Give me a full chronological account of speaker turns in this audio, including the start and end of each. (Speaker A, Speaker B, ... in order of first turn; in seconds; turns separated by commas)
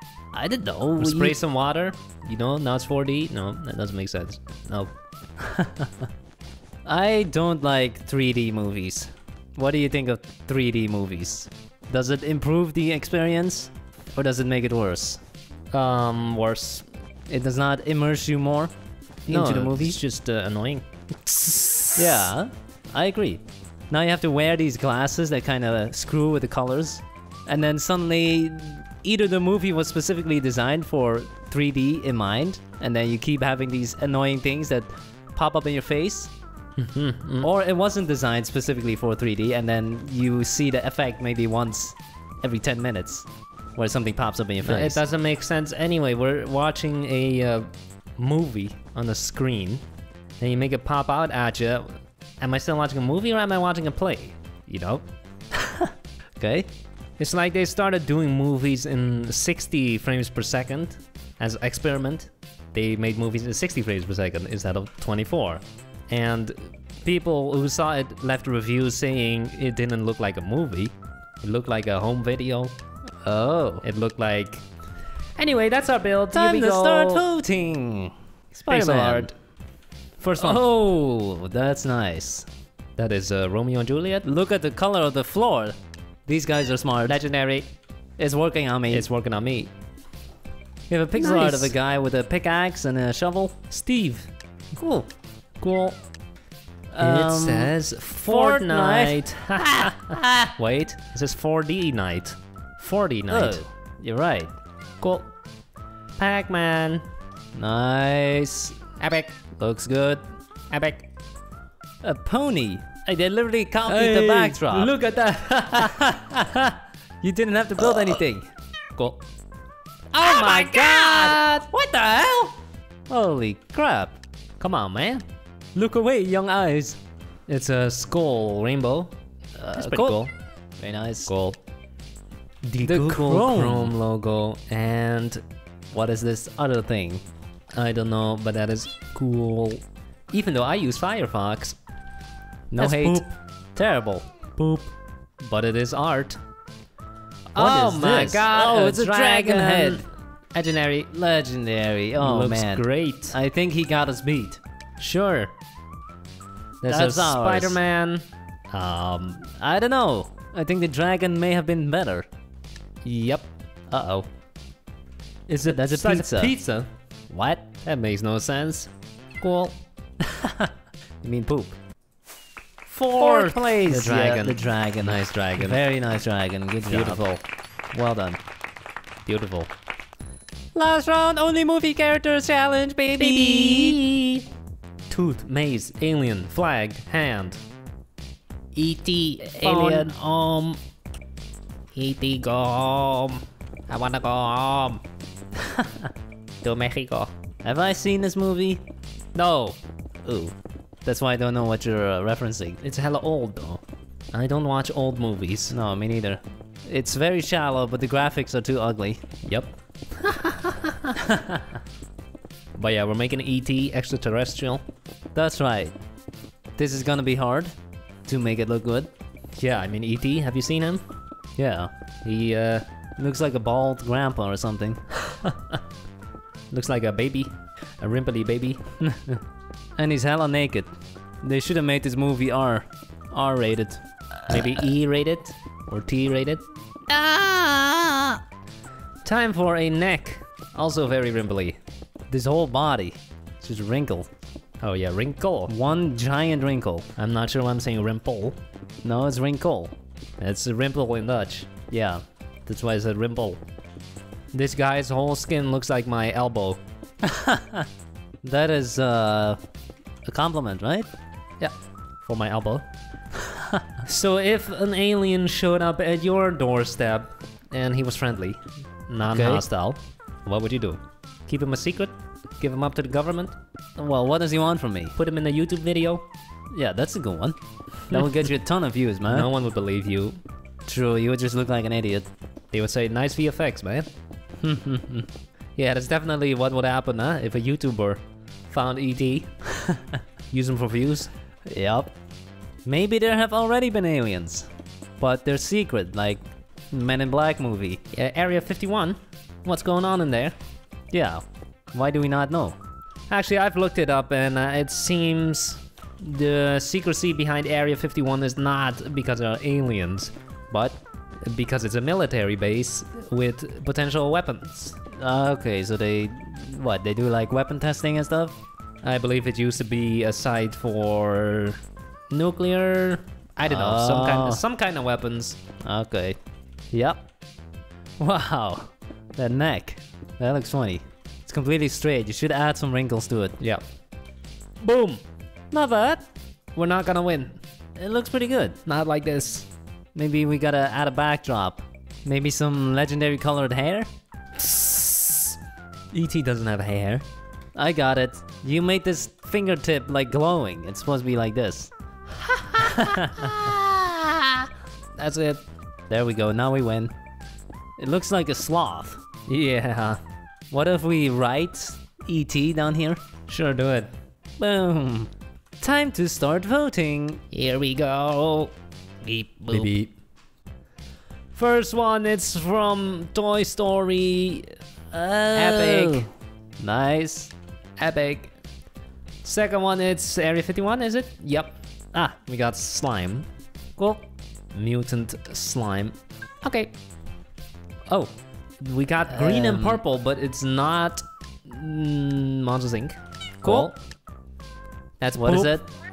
Speaker A: 0.3-1.4, Speaker B: 1.0-4.9, Speaker A: 5.6-5.9, Speaker A: 6.8-15.2, Speaker B: 15.7-16.9, Speaker A: 17.3-18.7, Speaker A: 19.3-20.0, Speaker B: 19.3-22.3, Speaker A: 22.0-36.3, Speaker B: 36.8-37.5, Speaker A: 37.4-45.0, Speaker B: 44.6-49.8, Speaker B: 50.4-55.0, Speaker A: 56.4-56.7, Speaker B: 57.2-72.7, Speaker A: 73.2-73.8, Speaker B: 73.8-74.6, Speaker B: 75.4-77.3, Speaker A: 76.3-79.3, Speaker B: 78.5-79.3, Speaker B: 80.2-80.6, Speaker A: 80.4-82.5, Speaker B: 83.0-84.2, Speaker A: 84.2-85.8, Speaker A: 86.3-87.2, Speaker B: 87.0-87.7, Speaker A: 88.2-89.1, Speaker B: 88.9-89.7, Speaker B: 90.9-91.7, Speaker A: 91.1-93.6, Speaker B: 93.7-95.1, Speaker B: 95.6-96.0, Speaker A: 96.9-97.7, Speaker B: 97.0-100.2, Speaker A: 98.2-101.0, Speaker B: 101.1-103.6, Speaker A: 103.3-104.5, Speaker B: 105.0-105.3, Speaker B: 106.2-107.0, Speaker A: 107.5-108.8, Speaker B: 109.0-109.4, Speaker A: 109.6-110.2, Speaker B: 110.7-111.1, Speaker A: 112.0-115.0, Speaker B: 113.8-116.4, Speaker A: 116.0-116.3, Speaker A: 117.2-118.5, Speaker B: 118.9-119.2, Speaker B: 120.1-121.6, Speaker A: 120.2-122.6, Speaker A: 123.1-124.2, Speaker B: 124.6-125.2, Speaker A: 125.7-127.0, Speaker B: 127.5-129.1, Speaker A: 129.6-130.2, Speaker B: 129.7-130.3, Speaker A: 130.8-131.3, Speaker B: 131.2-131.6, Speaker B: 132.6-135.4, Speaker A: 132.8-133.9, Speaker A: 135.9-137.2, Speaker B: 137.7-141.8, Speaker A: 142.7-144.3, Speaker B: 142.8-143.3, Speaker B: 144.6-144.9, Speaker B: 145.4-146.4, Speaker B: 147.5-151.1, Speaker A: 147.5-150.0, Speaker A: 151.1-154.6, Speaker B: 152.2-153.3, Speaker B: 155.0-155.5, Speaker B: 156.8-159.5, Speaker A: 156.8-157.8, Speaker A: 159.6-162.3, Speaker B: 163.0-163.4, Speaker A: 163.9-164.3, Speaker B: 165.5-166.9, Speaker A: 165.6-166.6, Speaker A: 167.3-167.6, Speaker B: 167.6-169.8, Speaker A: 170.3-170.7, Speaker A: 171.2-171.8, Speaker A: 172.9-177.2, Speaker B: 173.1-175.8, Speaker B: 176.9-177.4, Speaker A: 177.9-178.4, Speaker B: 179.2-179.7, Speaker A: 180.7-184.0, Speaker B: 183.2-184.4, Speaker B: 185.1-187.6, Speaker B: 188.7-190.8, Speaker A: 189.6-190.1, Speaker B: 191.9-195.0, Speaker B: 196.6-197.3, Speaker A: 197.6-198.8, Speaker B: 199.3-199.8, Speaker A: 200.2-202.8, Speaker B: 202.8-205.7, Speaker A: 205.7-209.2, Speaker B: 209.4-211.1, Speaker A: 211.3-211.6, Speaker B: 212.8-214.8, Speaker A: 215.3-215.9, Speaker A: 216.8-217.7, Speaker A: 218.2-219.1, Speaker B: 219.6-221.0, Speaker A: 221.6-221.9, Speaker B: 222.2-222.8, Speaker A: 223.2-225.0, Speaker B: 225.4-225.8, Speaker B: 226.7-228.8, Speaker A: 229.1-229.4, Speaker A: 230.0-230.9, Speaker A: 231.4-234.8, Speaker B: 234.5-236.6, Speaker A: 237.1-238.4, Speaker B: 239.2-241.8, Speaker A: 242.3-244.3, Speaker B: 244.8-245.7, Speaker A: 245.7-247.1, Speaker B: 247.2-248.6, Speaker A: 249.0-249.9, Speaker B: 250.4-251.7, Speaker A: 251.9-252.2, Speaker B: 252.7-253.6, Speaker B: 254.5-256.8, Speaker A: 257.3-257.9, Speaker A: 258.4-259.6, Speaker A: 260.2-261.1, Speaker B: 261.6-262.9, Speaker B: 264.0-273.5, Speaker A: 269.3-269.6, Speaker A: 274.0-275.1, Speaker B: 275.1-276.2, Speaker A: 276.7-277.6, Speaker A: 278.1-279.5, Speaker B: 278.1-278.3, Speaker B: 279.3-280.4, Speaker A: 280.9-282.3, Speaker B: 282.7-284.1, Speaker A: 284.6-285.3, Speaker B: 285.8-289.6, Speaker B: 290.5-291.3, Speaker A: 291.7-292.1, Speaker A: 292.8-298.0, Speaker B: 298.1-300.5, Speaker A: 301.1-302.8, Speaker B: 303.3-310.3, Speaker A: 310.7-311.0, Speaker B: 311.4-315.0, Speaker A: 315.1-318.6, Speaker B: 319.0-321.8, Speaker B: 322.3-325.6, Speaker A: 323.7-324.6, Speaker A: 325.8-326.4, Speaker A: 326.9-327.2, Speaker A: 328.2-333.6, Speaker B: 334.8-337.6, Speaker A: 338.0-338.8, Speaker B: 338.8-339.7, Speaker A: 340.1-344.1, Speaker B: 344.6-345.6, Speaker B: 346.1-347.2, Speaker A: 347.8-351.9, Speaker B: 352.7-354.5, Speaker A: 352.8-353.6, Speaker B: 355.2-355.6, Speaker A: 356.1-357.1, Speaker A: 358.0-359.2, Speaker B: 359.5-360.2, Speaker A: 360.7-363.2, Speaker B: 363.5-364.1, Speaker A: 364.6-367.4, Speaker B: 367.5-368.7, Speaker B: 369.2-370.1, Speaker B: 371.5-374.8, Speaker A: 375.1-377.5, Speaker B: 375.5-376.3, Speaker B: 378.0-378.5, Speaker B: 379.4-384.2, Speaker B: 384.7-386.1, Speaker B: 386.6-386.9, Speaker B: 388.1-393.9, Speaker A: 389.3-390.0, Speaker A: 393.6-393.9, Speaker B: 395.2-395.8, Speaker A: 395.4-395.8